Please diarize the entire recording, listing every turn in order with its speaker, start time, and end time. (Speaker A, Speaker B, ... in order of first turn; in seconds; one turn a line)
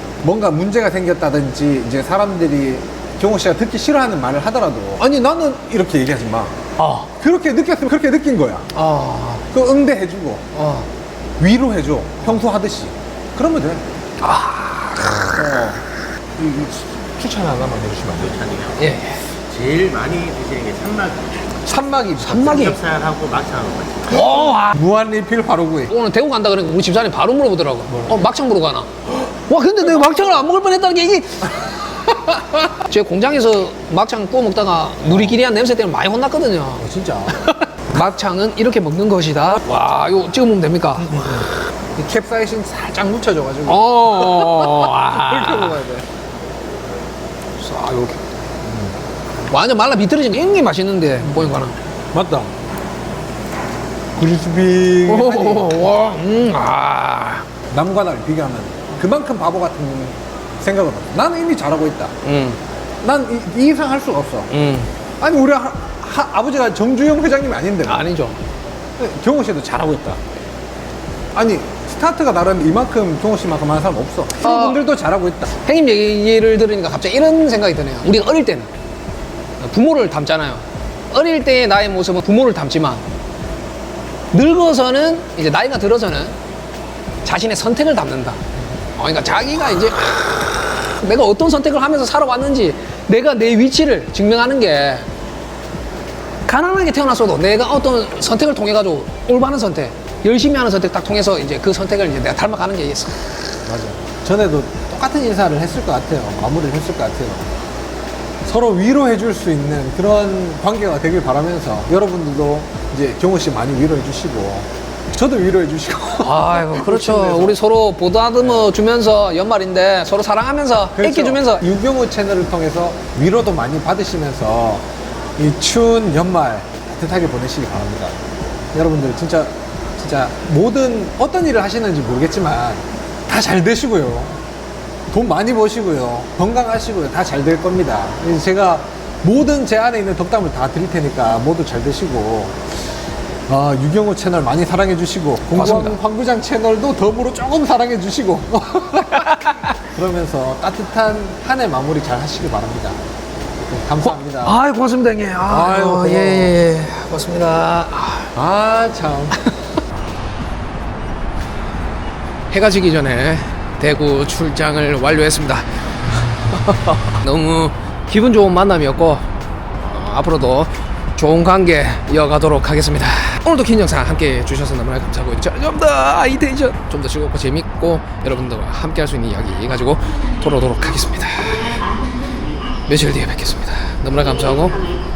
Speaker A: 0.2-8.7
Speaker B: 6.8-7.1
Speaker B: 8.7-9.4
Speaker A: 9.5-10.4
Speaker B: 10.5-10.8
Speaker A: 11.4-13.8
Speaker B: 14.2-15.3
Speaker A: 15.0-15.8
Speaker A: 16.4-18.4
Speaker C: 18.2-18.9
Speaker B: 18.8-19.2
Speaker C: 19.5-21.4
Speaker A: 21.6-22.7
Speaker B: 22.2-22.8
Speaker C: 22.4-24.2
Speaker B: 24.1-24.8
Speaker A: 24.1-25.9
Speaker B: 25.9-31.7
Speaker A: 27.9-28.1
Speaker B: 32.8-41.4
Speaker A: 36.8-37.4
Speaker A: 41.0-46.0
Speaker B: 43.7-45.8
Speaker B: 47.6-48.2
Speaker A: 48.6-48.9
Speaker B: 49.5-51.7
Speaker A: 51.2-51.5
Speaker A: 52.1-52.5
Speaker A: 54.1-55.8
Speaker B: 55.0-57.5
Speaker A: 57.7-62.1
Speaker B: 62.2-62.6
Speaker A: 63.0-64.5
Speaker B: 64.5-64.9
Speaker A: 65.2-68.1
Speaker B: 67.8-68.4
Speaker A: 69.0-70.2
Speaker A: 71.3-75.5
Speaker B: 74.4-74.8
Speaker B: 75.6-78.7
Speaker B: 79.6-83.0
Speaker B: 84.3-86.3
Speaker B: 87.2-88.4
Speaker B: 89.0-95.0
Speaker B: 96.5-103.4
Speaker A: 103.7-107.6
Speaker A: 108.4-117.6
Speaker B: 116.2-121.6
Speaker A: 120.9-124.8
Speaker A: 125.4-134.4
Speaker A: 135.1-142.6
Speaker A: 143.5-153.0
Speaker B: 145.5-145.9
Speaker B: 149.1-149.7
Speaker A: 153.6-154.6
Speaker B: 154.0-158.3
Speaker A: 155.4-156.6
Speaker A: 158.3-159.4
Speaker B: 162.5-165.7
Speaker B: 166.5-169.2
Speaker B: 169.8-181.8
Speaker B: 182.9-184.8